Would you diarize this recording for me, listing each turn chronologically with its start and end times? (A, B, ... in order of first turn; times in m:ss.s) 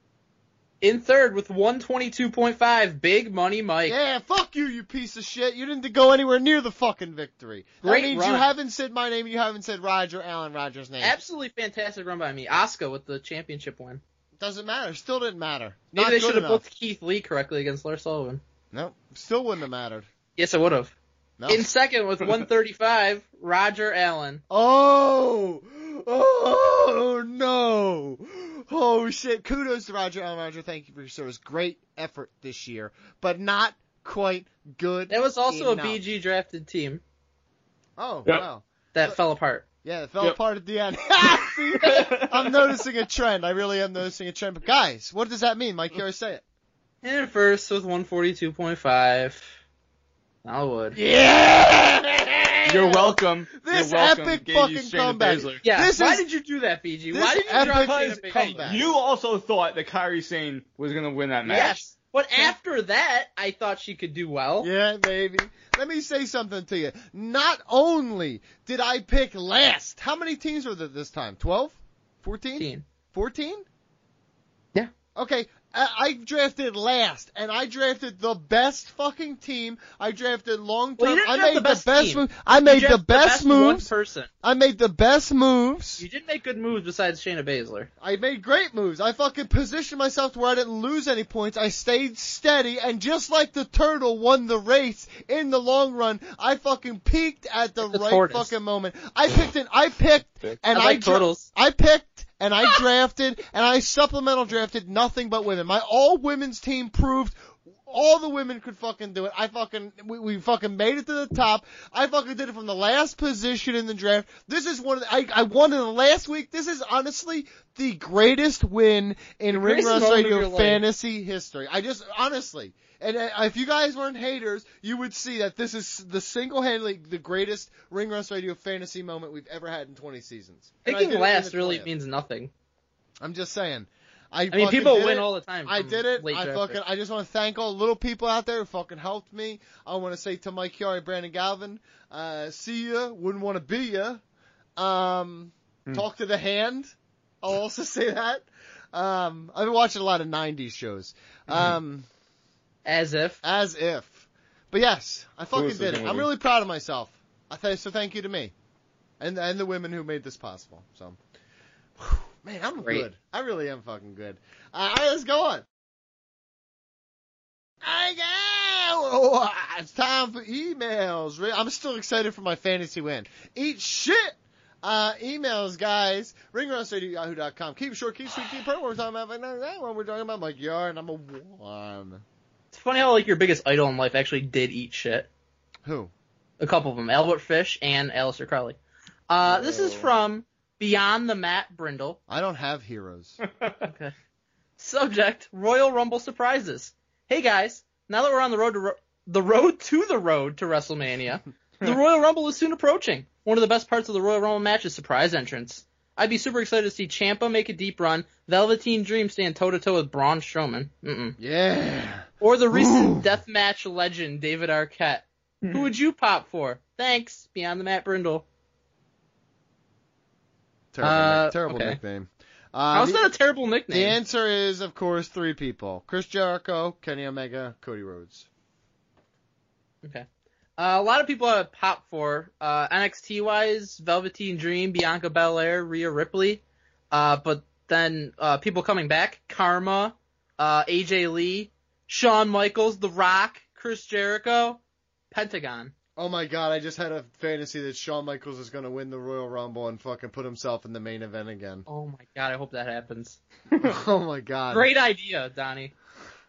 0:00.8-0:04.0 A
0:03.8-0:11.2 B
0:07.8-0:08.5 A
0:11.0-0:14.0 A
0:14.4-0:16.6 B
0:16.0-0:18.4 A
0:18.7-0:20.1 B
0:20.4-0:20.9 A
0:21.4-0:21.7 B
0:21.5-0:24.4 A
0:24.5-0:36.0 B
0:35.1-0:37.0 A
0:38.0-0:39.2 B
0:38.9-0:39.6 A
0:39.8-0:46.4 B
0:41.8-0:42.5 C
0:47.0-0:49.5 A
0:50.4-0:51.0 A
0:50.9-0:56.2 B
0:52.6-0:55.6 C
0:55.6-0:58.7 A
0:57.1-0:58.9 B
0:57.8-1:01.9 C
1:01.4-1:04.7 A
1:04.6-1:13.6 B
1:12.6-1:12.8 A
1:15.1-1:23.9 B
1:21.0-1:24.3 A
1:24.4-1:26.0 B
1:26.0-1:27.9 A
1:28.0-2:11.9 B
1:37.8-1:38.5 A
1:40.7-1:41.5 A
1:59.5-2:00.8 A
2:10.8-2:12.5 A
2:13.2-2:24.2 B
2:14.5-2:16.8 A
2:24.8-2:32.1 B
2:32.8-2:33.4 A
2:33.4-2:38.5 B
2:35.5-2:36.3 C
2:39.2-2:41.2 B
2:42.0-2:45.6 B
2:47.8-3:02.2 B
3:02.7-3:05.3 A
3:05.8-3:06.1 B
3:06.6-3:08.8 A
3:09.3-3:12.2 A
3:09.5-3:10.0 C
3:12.3-3:13.4 B
3:13.8-3:14.1 A
3:14.8-3:31.4 A
3:31.4-3:33.2 B
3:32.4-3:38.4 A
3:40.9-3:43.2 B
3:41.0-3:42.0 A
3:42.9-3:44.2 A
3:43.9-3:48.4 B
3:50.8-4:05.9 A
4:06.2-4:11.8 B
4:11.9-4:13.4 A
4:13.8-4:14.9 B
4:14.7-4:15.9 A